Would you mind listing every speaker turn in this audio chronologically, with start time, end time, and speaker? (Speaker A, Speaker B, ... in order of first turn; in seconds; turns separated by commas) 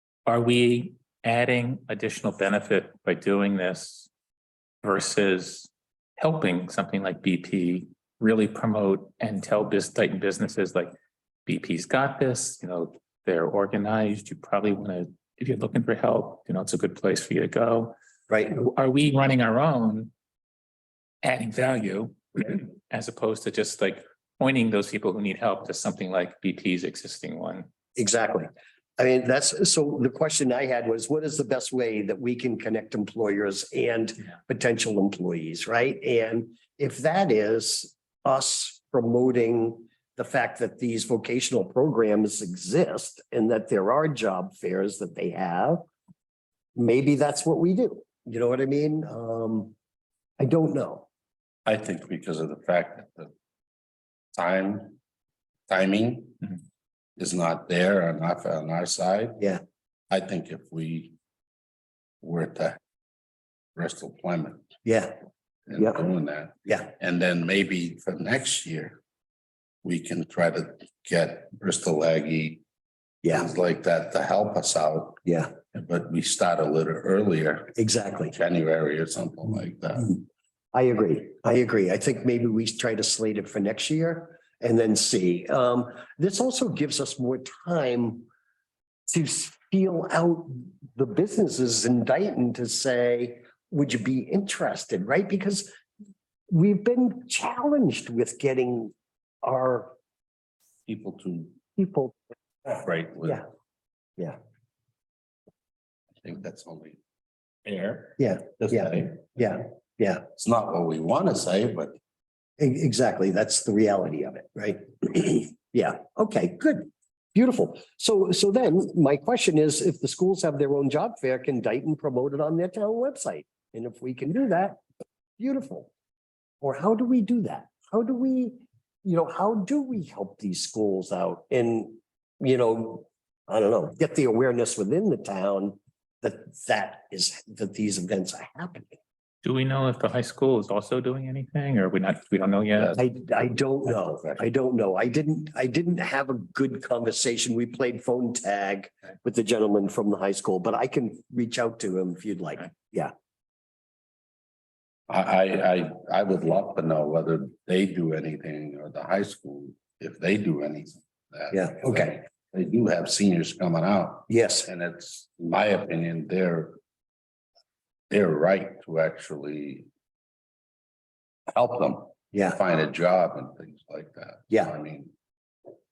Speaker A: 0.3-4.1, Speaker A: 4.8-10.9, Speaker A: 11.5-17.9, Speaker B: 18.3-18.6, Speaker A: 18.5-20.1, Speaker A: 21.2-27.7, Speaker B: 28.0-45.8, Speaker B: 46.8-49.7, Speaker B: 50.4-51.1, Speaker C: 51.7-53.3, Speaker C: 54.4-55.0, Speaker C: 55.7-56.5, Speaker C: 57.2-59.5, Speaker C: 60.1-61.2, Speaker C: 62.2-62.8, Speaker C: 63.8-64.7, Speaker B: 64.8-65.2, Speaker C: 65.7-69.0, Speaker B: 66.7-66.9, Speaker C: 69.8-72.6, Speaker B: 73.2-73.5, Speaker C: 73.3-75.2, Speaker B: 75.3-75.5, Speaker C: 75.7-77.7, Speaker B: 77.8-78.3, Speaker C: 78.3-80.2, Speaker B: 80.7-88.3, Speaker B: 89.1-95.7, Speaker B: 96.5-99.9, Speaker C: 100.9-101.6, Speaker B: 101.8-102.2, Speaker B: 102.7-103.5, Speaker C: 102.8-103.4, Speaker C: 106.2-107.0, Speaker C: 107.7-109.2, Speaker B: 108.2-110.3, Speaker C: 110.4-112.0, Speaker B: 112.6-124.8, Speaker B: 125.4-125.9, Speaker B: 126.6-139.0, Speaker A: 139.4-143.0, Speaker C: 142.8-144.5, Speaker B: 143.0-153.1, Speaker C: 155.1-166.8, Speaker B: 161.5-162.2, Speaker B: 164.3-164.7, Speaker C: 168.1-169.9, Speaker C: 171.5-175.1, Speaker B: 172.3-172.6